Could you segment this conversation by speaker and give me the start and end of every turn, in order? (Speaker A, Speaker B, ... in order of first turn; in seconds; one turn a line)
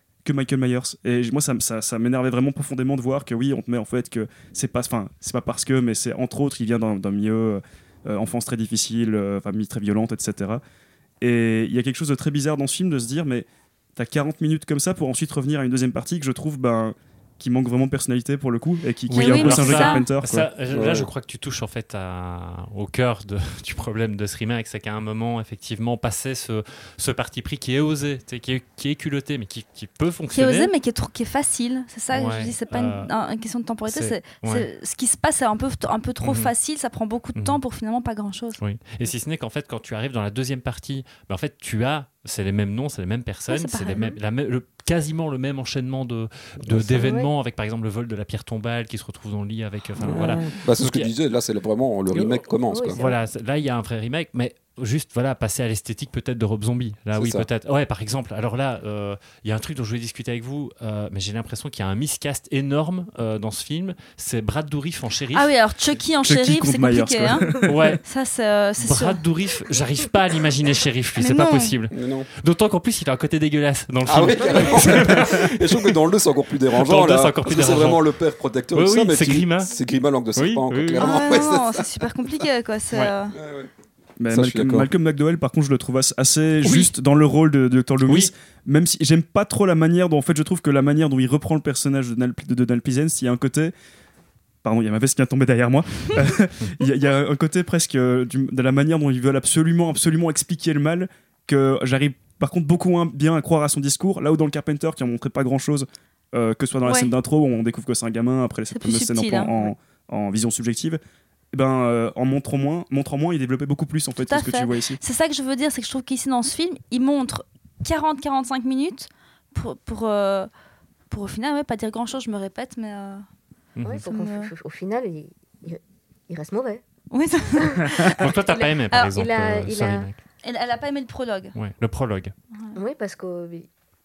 Speaker A: 0.2-10.6
Speaker A: 11.2-20.5
Speaker B: 19.1-30.7
Speaker C: 19.1-20.1
Speaker D: 20.7-21.1
Speaker C: 30.3-38.6
Speaker B: 32.1-33.1
Speaker B: 33.9-34.7
Speaker B: 36.2-36.5
Speaker B: 38.6-51.1
Speaker C: 43.5-44.2
Speaker D: 46.6-47.0
Speaker E: 47.0-47.3
Speaker D: 50.0-53.0
Speaker B: 52.1-52.4
Speaker E: 52.7-53.1
Speaker B: 52.9-65.5
Speaker D: 57.1-57.5
Speaker C: 65.3-69.2
Speaker A: 66.2-68.0
Speaker B: 67.6-68.0
Speaker B: 68.8-75.9
Speaker C: 71.2-71.8
Speaker D: 71.9-72.3
Speaker D: 74.0-82.1
Speaker B: 76.7-78.1
Speaker B: 78.7-79.7
Speaker B: 80.4-81.2
Speaker C: 81.0-83.4
Speaker D: 83.3-83.7
Speaker A: 84.2-93.7
Speaker D: 84.3-84.9
Speaker B: 86.6-86.9
Speaker B: 88.0-88.3
Speaker A: 94.6-111.0
Speaker C: 106.8-107.1
Speaker C: 108.7-109.7
Speaker A: 111.5-115.0
Speaker C: 114.2-120.5
Speaker C: 121.1-123.3
Speaker B: 123.8-124.0
Speaker E: 123.8-126.8
Speaker C: 124.1-124.5
Speaker C: 127.1-128.3
Speaker E: 127.5-130.1
Speaker B: 128.1-130.2
Speaker C: 130.4-131.6
Speaker B: 131.6-132.3
Speaker E: 132.8-133.7